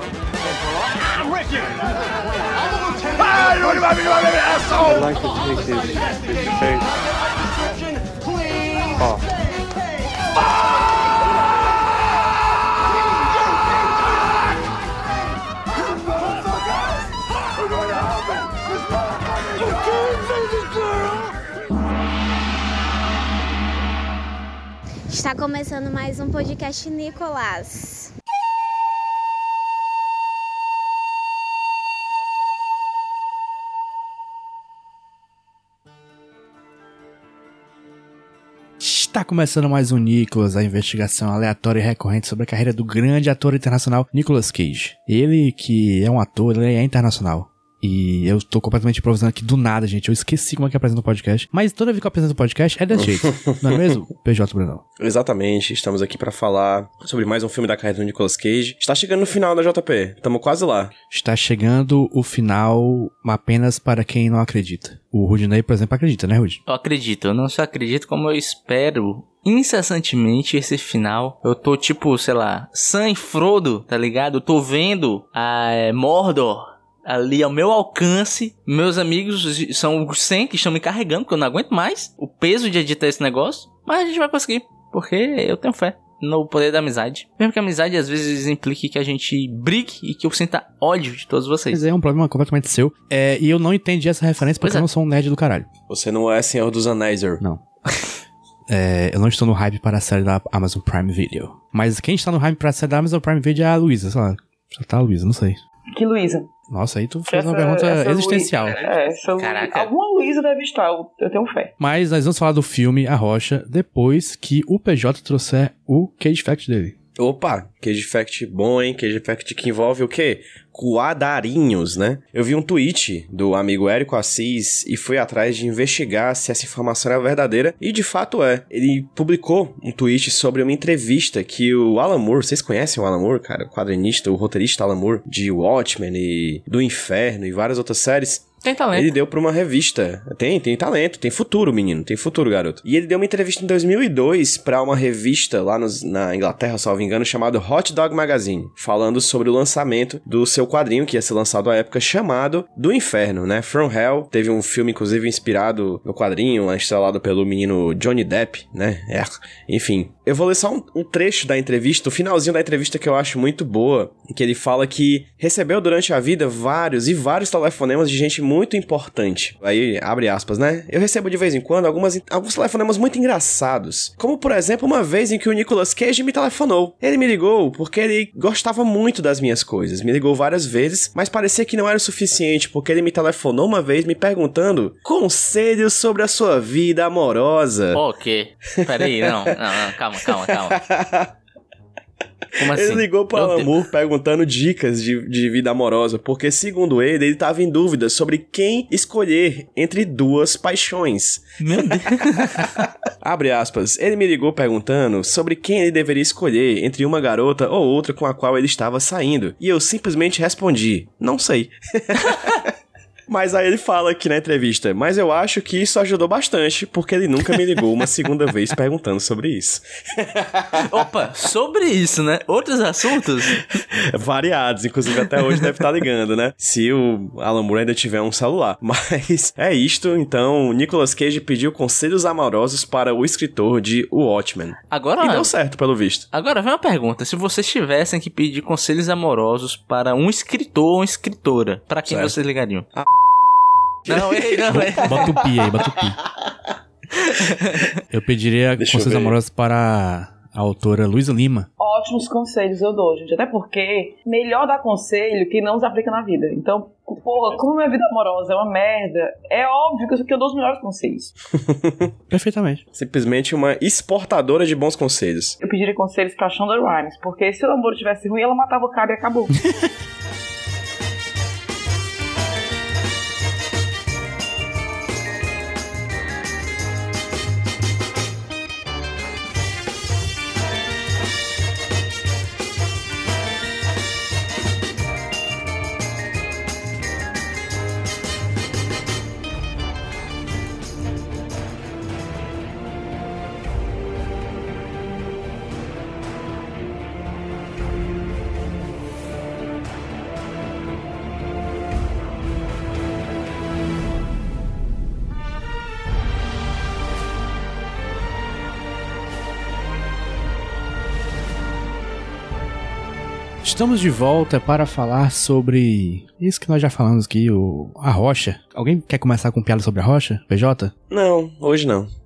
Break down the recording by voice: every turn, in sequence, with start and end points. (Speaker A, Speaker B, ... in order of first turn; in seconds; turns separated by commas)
Speaker A: 3.2-6.9, Speaker A: 8.9-9.3, Speaker B: 25.1-28.1, Speaker C: 38.8-54.8, Speaker D: 53.0-54.0, Speaker D: 55.0-60.9, Speaker C: 61.1-66.6, Speaker E: 66.7-91.8, Speaker C: 91.7-95.7, Speaker D: 95.9-97.4, Speaker C: 97.4-97.7, Speaker C: 98.7-105.6, Speaker F: 106.0-106.5, Speaker C: 106.7-108.8, Speaker F: 107.3-111.8, Speaker E: 108.7-109.9, Speaker C: 111.8-117.0, Speaker D: 117.2-188.0, Speaker E: 138.6-139.1, Speaker E: 187.9-190.8, Speaker D: 188.9-189.3, Speaker D: 190.5-191.3, Speaker E: 192.6-193.7, Speaker D: 192.6-201.6, Speaker E: 201.6-202.8, Speaker D: 202.5-212.7, Speaker E: 212.3-212.6, Speaker D: 213.3-220.8, Speaker E: 220.8-223.6, Speaker D: 223.8-236.3, Speaker E: 234.9-235.5, Speaker E: 236.3-242.9, Speaker D: 242.1-242.3, Speaker E: 244.1-245.3, Speaker D: 244.1-245.3, Speaker C: 244.7-246.2, Speaker E: 247.2-247.9, Speaker C: 248.1-251.7, Speaker D: 248.8-249.3, Speaker F: 251.8-261.3, Speaker D: 261.6-262.1, Speaker C: 262.3-262.8, Speaker D: 262.9-265.6, Speaker F: 265.6-269.6, Speaker C: 313.6-320.9, Speaker D: 321.1-322.1